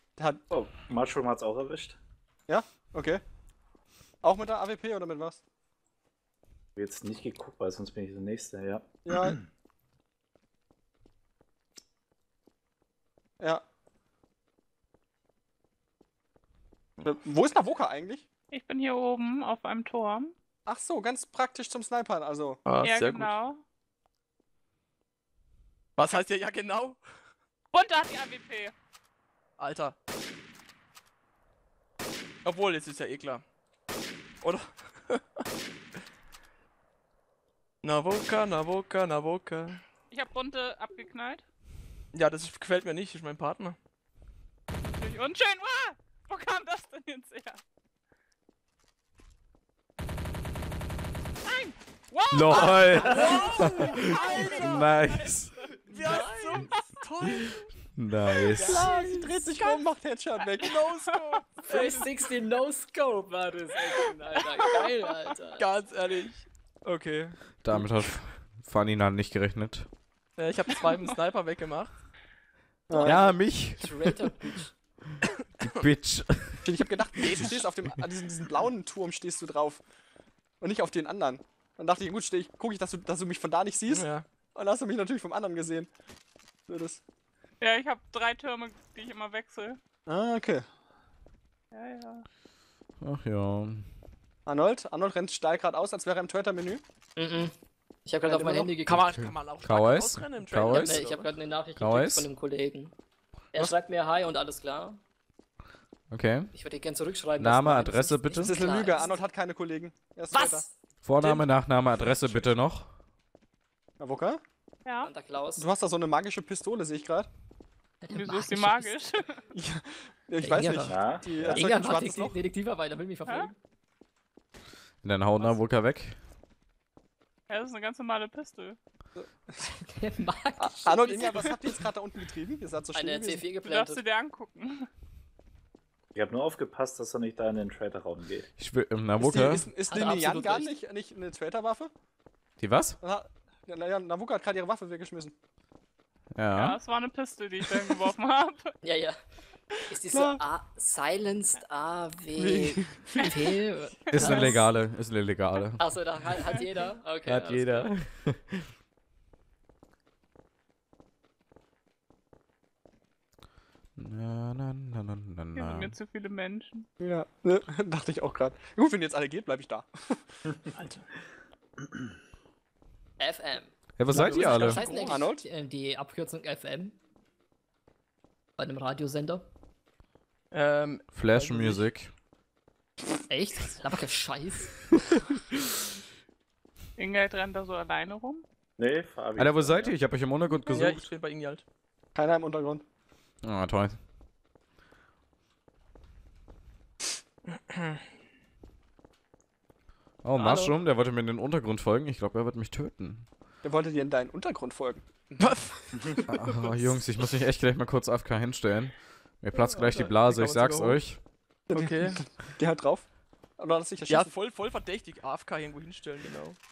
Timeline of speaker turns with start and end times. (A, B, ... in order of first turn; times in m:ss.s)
0:00.5-0:02.0 A
0:02.5-0:03.2 B
0:04.2-0:05.4 B
0:06.8-0:09.4 A
0:09.1-0:09.4 B
0:17.0-0:18.3 B
0:18.5-0:20.3 C
0:20.7-0:22.6 B
0:22.6-0:23.3 D
0:22.8-0:23.6 C
0:26.0-0:27.0 D
0:27.7-0:28.7 C
0:29.6-0:29.9 D
0:32.4-0:33.4 D
0:34.4-0:35.2 D
0:37.8-0:39.8 D
0:40.1-0:41.4 C
0:42.1-0:43.8 D
0:44.8-0:47.6 C
0:51.5-0:55.3 C
0:52.3-0:55.6 E
0:52.9-0:54.0 F
0:53.0-0:54.9 D
0:55.9-0:57.7 D
0:55.9-0:56.7 F
0:58.0-0:58.8 E
0:58.6-0:58.9 D
0:58.6-1:00.7 B
0:58.6-0:59.4 F
1:00.4-1:01.4 C
1:00.6-1:02.2 D
1:01.6-1:05.6 F
1:05.6-1:07.9 D
1:07.6-1:09.9 E
1:10.4-1:12.0 D
1:12.9-1:13.2 B
1:12.9-1:14.6 F
1:13.0-1:14.6 E
1:15.6-1:16.8 E
1:16.6-1:19.8 B
1:17.2-1:17.6 D
1:20.6-1:25.9 B
1:23.9-1:24.2 D
1:26.7-1:27.0 B
1:27.6-1:29.8 C
1:30.1-1:30.6 B
1:31.7-1:32.2 C
1:33.0-1:33.8 E
1:34.5-1:36.8 B
1:37.2-1:37.5 F
1:38.1-1:39.0 F
1:38.2-1:38.8 B
1:38.9-1:41.3 D
1:38.9-1:41.0 E
1:40.8-1:42.9 F
1:41.8-1:42.3 E
1:43.5-1:45.0 F
1:46.1-1:46.5 E
1:46.5-1:49.2 F
1:47.4-1:48.7 E
1:48.4-1:50.6 B
1:50.3-1:50.7 F
1:51.0-1:52.9 E
1:52.0-1:52.5 B
1:54.0-1:54.4 B
1:54.8-1:55.1 C
1:55.0-1:55.6 F
1:55.6-1:57.3 B
1:58.0-1:59.1 F
1:58.1-1:59.4 C
1:59.5-2:02.4 B
2:00.4-2:03.6 F
2:00.9-2:01.7 A
2:05.0-2:06.2 E
2:07.5-2:08.8 C
2:09.6-2:11.4 F
2:10.6-2:13.5 B
2:11.3-2:11.6 C
2:12.9-2:14.0 F
2:13.6-2:14.9 C
2:16.2-2:18.5 A
2:18.6-2:19.7 E
2:19.2-2:21.9 B
2:19.9-2:20.7 F
2:22.6-2:23.0 E
2:23.0-2:25.3 B
2:26.4-2:26.8 E
2:26.6-2:28.7 C
2:27.6-2:28.0 B
2:28.8-2:29.1 F
2:29.9-2:34.7 F
2:30.1-2:30.4 B
2:32.4-2:33.1 B
2:34.1-2:35.8 E
2:34.1-2:34.6 C
2:35.8-2:37.9 F
2:37.2-2:38.7 E
2:44.0-2:45.9 E
2:45.6-2:46.9 C
2:47.0-2:50.4 B
2:50.8-2:51.0 D
2:53.2-2:56.9 F
2:54.0-2:54.8 E
2:54.1-2:55.0 D
2:54.2-2:55.4 B
2:58.6-2:59.5 F
3:00.5-3:01.8 D
3:01.1-3:02.1 E
3:03.3-3:04.7 F
3:07.0-3:08.4 C
3:08.8-3:10.0 A
3:09.4-3:11.1 E
3:10.7-3:11.6 D
3:12.2-3:12.8 B
3:13.4-3:14.0 E
3:17.5-3:18.0 D
3:20.2-3:23.3 E
3:20.3-3:20.8 D
3:23.6-3:25.5 B
3:25.4-3:25.9 D
3:26.3-3:31.2 E
3:29.6-3:31.0 D
3:31.7-3:34.3 B
3:31.7-3:32.2 D
3:34.1-3:36.6 D